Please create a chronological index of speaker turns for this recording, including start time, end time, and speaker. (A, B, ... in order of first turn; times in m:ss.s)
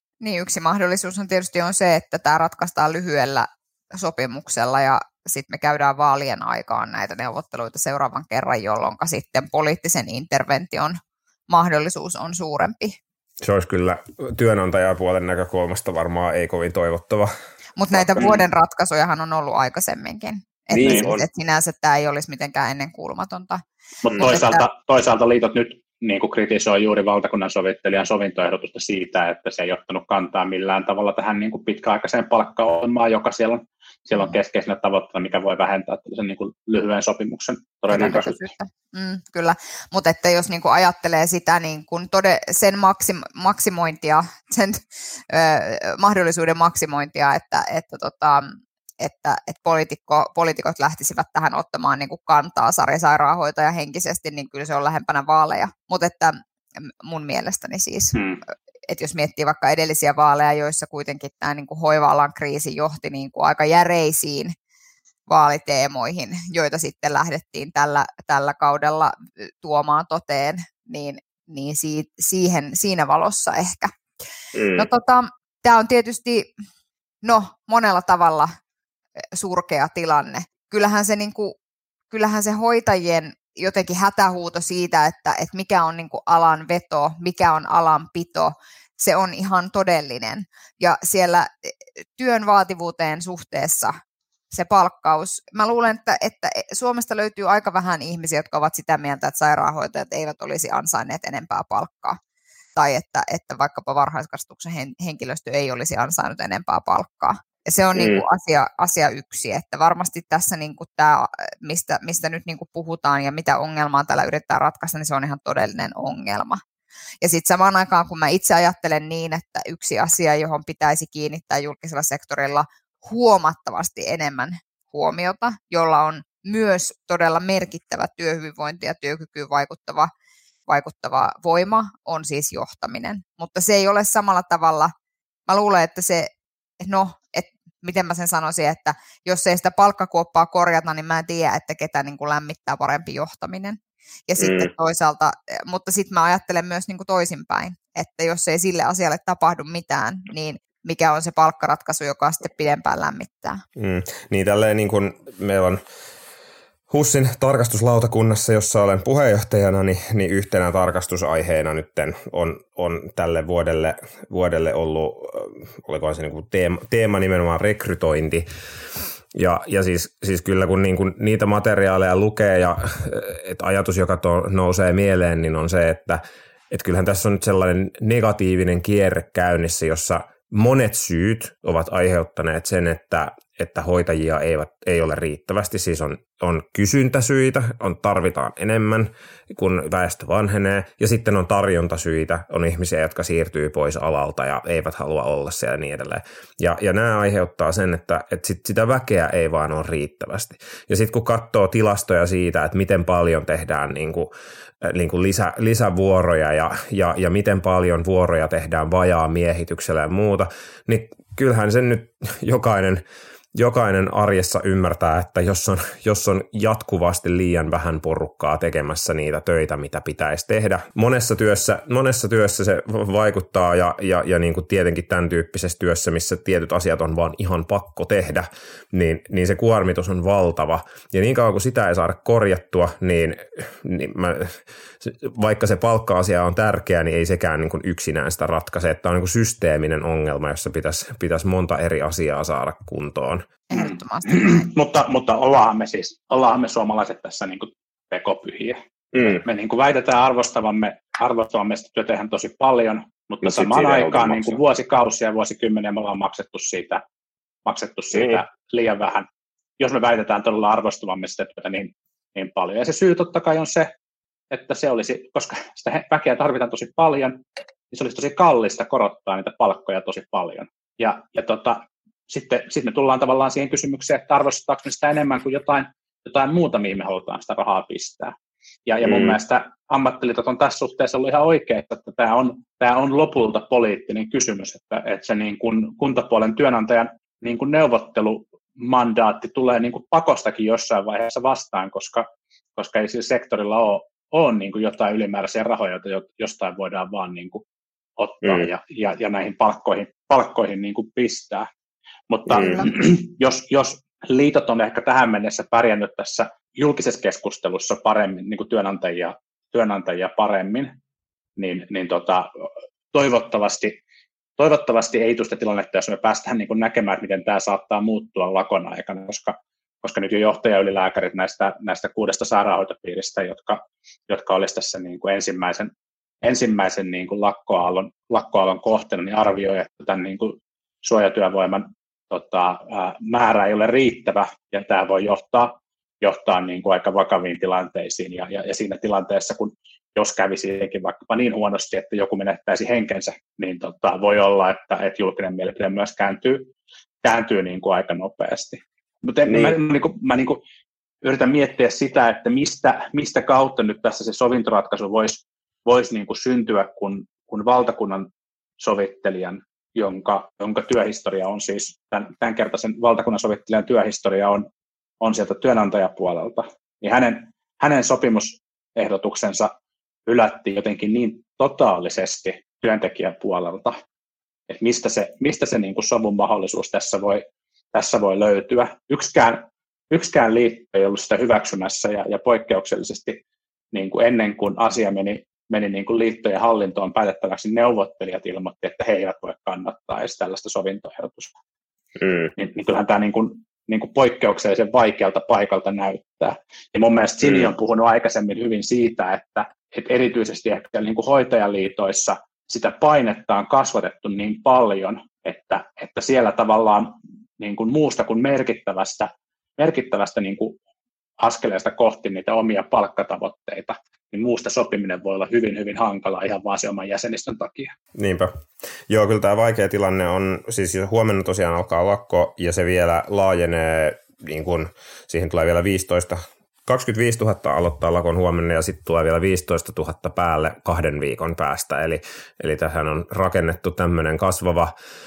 0:00.2-0:11.0 A
0:11.5-0:13.0 A
0:13.4-0:17.3 B
0:17.8-0:23.6 A
0:17.9-0:18.4 B
0:20.7-0:21.2 B
0:20.8-0:21.1 C
0:24.0-0:38.4 C
0:24.2-0:24.6 A
0:37.9-0:56.4 A
0:57.0-0:58.2 A
0:58.1-0:58.4 C
0:58.9-1:04.5 A
1:05.3-1:13.9 A
1:14.5-1:14.8 B
1:14.7-1:16.5 A
1:17.2-1:18.5 A
1:19.3-1:21.5 A
1:22.1-1:33.9 A
1:34.5-1:42.2 A
1:42.8-1:56.6 A
1:47.9-1:48.2 B
1:57.2-2:10.1 A
2:10.7-2:14.9 A
2:15.5-2:16.3 A
2:16.8-2:33.6 A
2:24.4-2:24.7 B
2:33.8-2:35.8 B
2:36.9-2:48.5 B
2:49.3-4:03.5 B
4:03.7-4:04.7 A
4:03.7-4:17.0 C
4:09.1-4:09.4 B
4:13.4-4:14.6 B
4:17.6-4:19.3 C
4:18.1-4:18.4 B
4:19.8-4:23.9 C
4:24.5-4:38.3 C
4:38.9-4:57.6 C
4:39.0-4:39.4 B
4:58.2-5:01.7 C
5:02.3-5:10.9 C
5:02.5-5:02.8 B
5:11.6-5:12.5 C
5:13.1-5:14.0 C
5:14.6-5:25.9 C
5:26.4-5:46.7 C
5:47.2-5:50.6 C
5:49.5-5:49.8 B
5:51.2-5:58.3 C
5:58.8-6:04.6 C
6:05.2-6:09.7 C
6:10.2-6:14.0 C
6:14.7-6:23.4 C
6:23.9-6:31.5 C
6:32.2-6:32.5 B
6:32.6-6:50.8 C
6:51.4-6:57.9 C
6:58.1-7:14.9 B